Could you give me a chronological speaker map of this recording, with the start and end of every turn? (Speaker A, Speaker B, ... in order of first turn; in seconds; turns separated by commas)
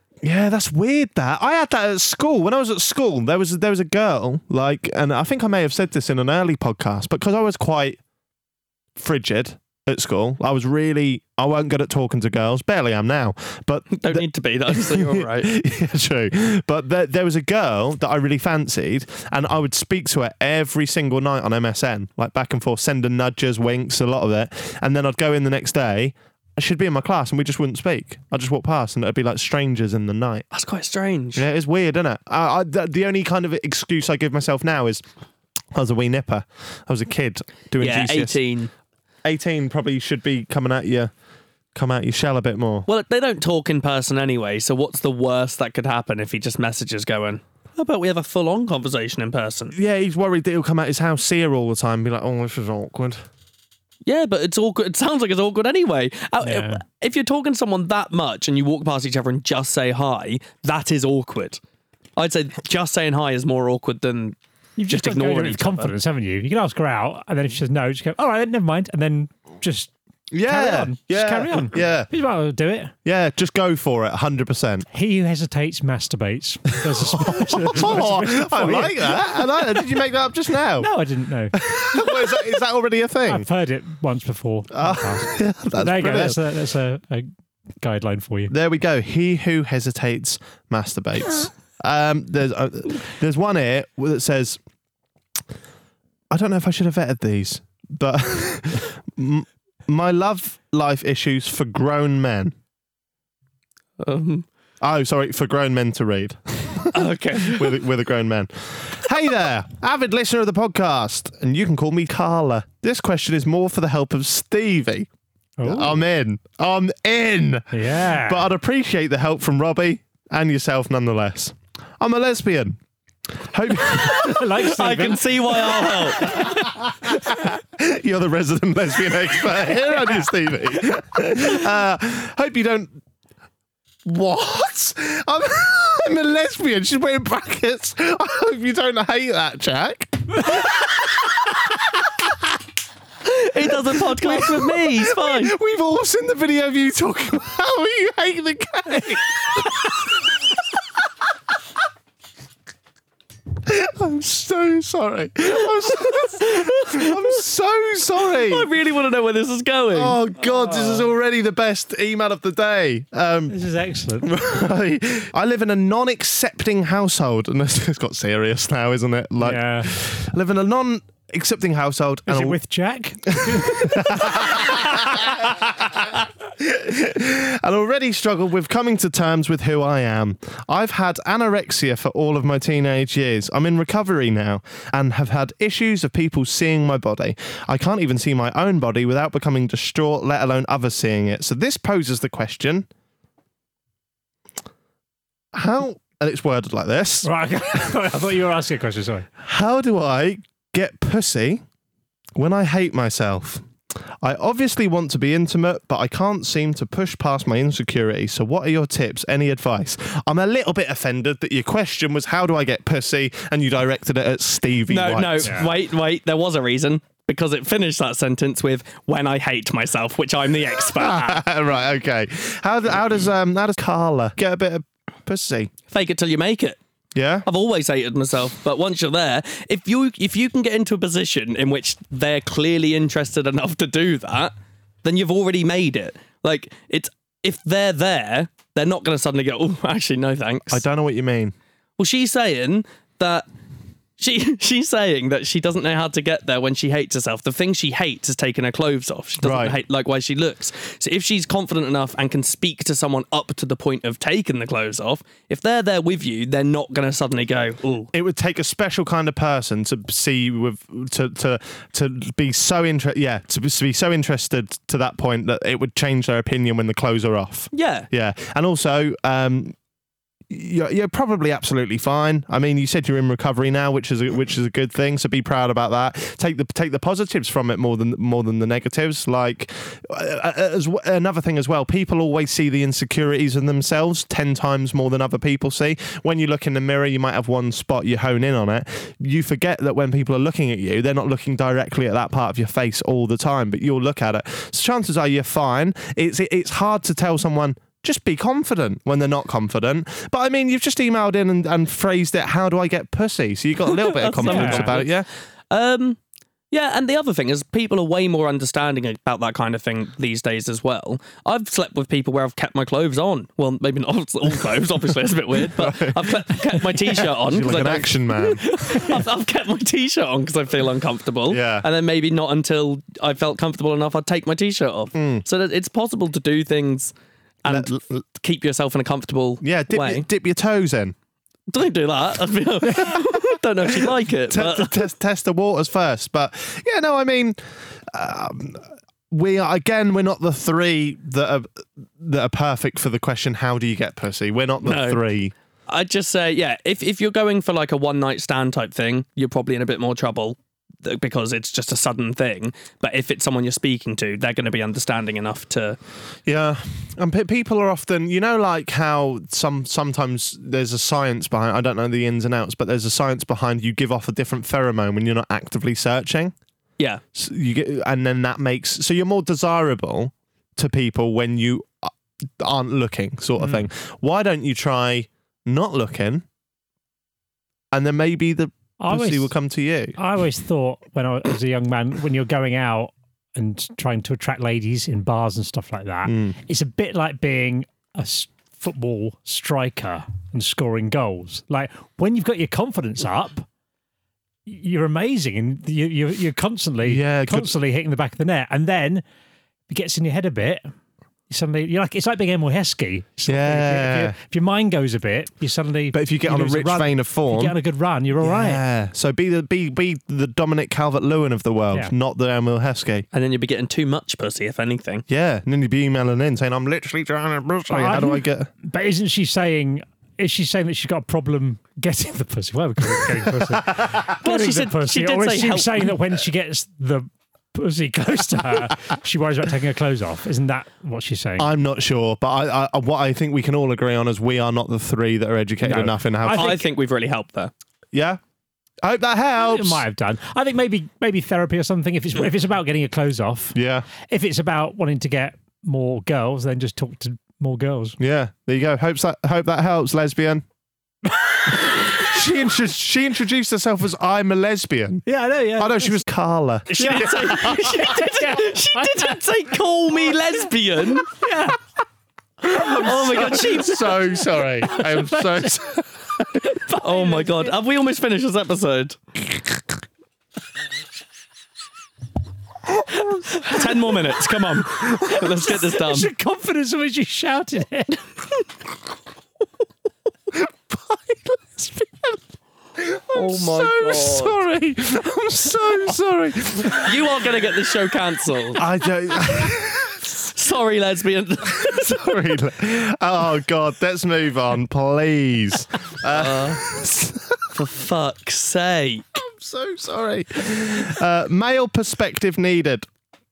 Speaker A: 0.2-8.0, Speaker A: 8.9-30.4, Speaker B: 13.9-15.6, Speaker B: 30.5-31.4, Speaker A: 31.3-35.0, Speaker A: 35.7-38.4, Speaker B: 37.8-38.7, Speaker A: 39.2-41.1, Speaker A: 41.7-42.9, Speaker B: 42.9-49.7, Speaker A: 49.7-53.2, Speaker B: 54.0-61.6, Speaker C: 56.4-56.8, Speaker B: 62.2-64.4, Speaker C: 64.8-69.9, Speaker B: 64.9-65.9, Speaker A: 70.3-72.1, Speaker C: 70.5-72.9, Speaker A: 73.0-74.8, Speaker C: 74.9-79.8, Speaker A: 77.0-80.9, Speaker C: 80.8-82.4, Speaker A: 81.5-83.5, Speaker C: 83.2-87.3, Speaker A: 84.7-86.4, Speaker C: 87.8-88.5, Speaker A: 88.5-94.6, Speaker A: 96.3-102.5, Speaker B: 104.0-104.4, Speaker A: 104.8-115.1, Speaker B: 106.9-107.8, Speaker C: 115.6-116.0, Speaker A: 115.6-122.8, Speaker C: 117.7-118.5, Speaker A: 123.3-124.5, Speaker B: 123.9-126.5, Speaker C: 124.0-126.5, Speaker A: 126.2-133.0, Speaker A: 134.0-142.5, Speaker B: 143.2-145.6, Speaker A: 143.6-150.5, Speaker A: 153.6-158.7, Speaker B: 156.1-157.2, Speaker B: 158.3-160.2, Speaker A: 159.9-163.6, Speaker C: 163.5-164.3, Speaker A: 164.2-172.6, Speaker C: 169.4-169.9, Speaker C: 172.3-174.6, Speaker A: 173.3-192.9, Speaker A: 195.5-197.3, Speaker C: 197.2-199.3, Speaker A: 199.4-201.6, Speaker A: 202.3-203.6, Speaker A: 204.2-215.6, Speaker B: 214.9-221.4, Speaker C: 215.4-215.7, Speaker A: 220.9-225.7, Speaker B: 225.9-226.8, Speaker A: 227.1-227.5, Speaker B: 227.4-234.5, Speaker B: 235.0-240.8, Speaker A: 240.7-241.5, Speaker B: 242.0-243.4, Speaker B: 244.2-258.1, Speaker A: 249.4-249.8, Speaker A: 258.1-269.7, Speaker B: 267.7-268.1, Speaker A: 270.5-305.3, Speaker B: 303.9-306.2, Speaker C: 304.4-304.9, Speaker B: 306.7-327.1, Speaker A: 315.6-318.7, Speaker A: 321.5-321.9, Speaker A: 325.1-325.4, Speaker B: 327.6-330.2, Speaker A: 327.7-328.2, Speaker A: 329.6-331.1, Speaker B: 331.7-335.0, Speaker A: 332.9-333.4, Speaker A: 333.9-345.5, Speaker B: 344.8-345.2, Speaker B: 345.9-356.0, Speaker A: 356.4-366.5, Speaker A: 367.3-376.4, Speaker C: 373.6-373.8, Speaker A: 377.9-380.1, Speaker C: 379.0-379.5, Speaker C: 380.1-393.7, Speaker A: 386.2-386.5, Speaker C: 394.6-399.2, Speaker A: 397.1-397.7, Speaker C: 399.9-400.9, Speaker C: 401.5-408.8, Speaker A: 403.5-404.4, Speaker A: 406.1-407.7, Speaker A: 408.4-413.2, Speaker B: 413.3-415.2, Speaker A: 415.3-418.7, Speaker C: 417.9-431.7, Speaker A: 423.2-424.2, Speaker B: 424.4-426.1, Speaker A: 431.6-436.8, Speaker C: 435.8-436.8, Speaker B: 436.5-437.7, Speaker A: 438.1-438.4, Speaker A: 439.0-440.0, Speaker C: 439.6-448.2, Speaker A: 443.7-444.1, Speaker A: 448.2-450.6, Speaker A: 451.8-458.0, Speaker C: 455.2-456.2, Speaker C: 456.9-459.4, Speaker B: 457.0-461.3, Speaker C: 461.3-461.8, Speaker C: 462.7-465.9, Speaker A: 462.7-466.7, Speaker B: 462.8-464.1, Speaker C: 466.5-467.7, Speaker B: 467.0-469.2, Speaker B: 473.6-476.3, Speaker C: 475.3-478.2, Speaker A: 480.5-482.3, Speaker A: 483.0-487.1, Speaker B: 483.3-484.6, Speaker B: 486.9-488.8, Speaker A: 488.8-490.2, Speaker B: 490.4-492.4, Speaker A: 491.7-497.7, Speaker B: 496.2-496.8, Speaker B: 497.7-499.2, Speaker A: 499.3-503.1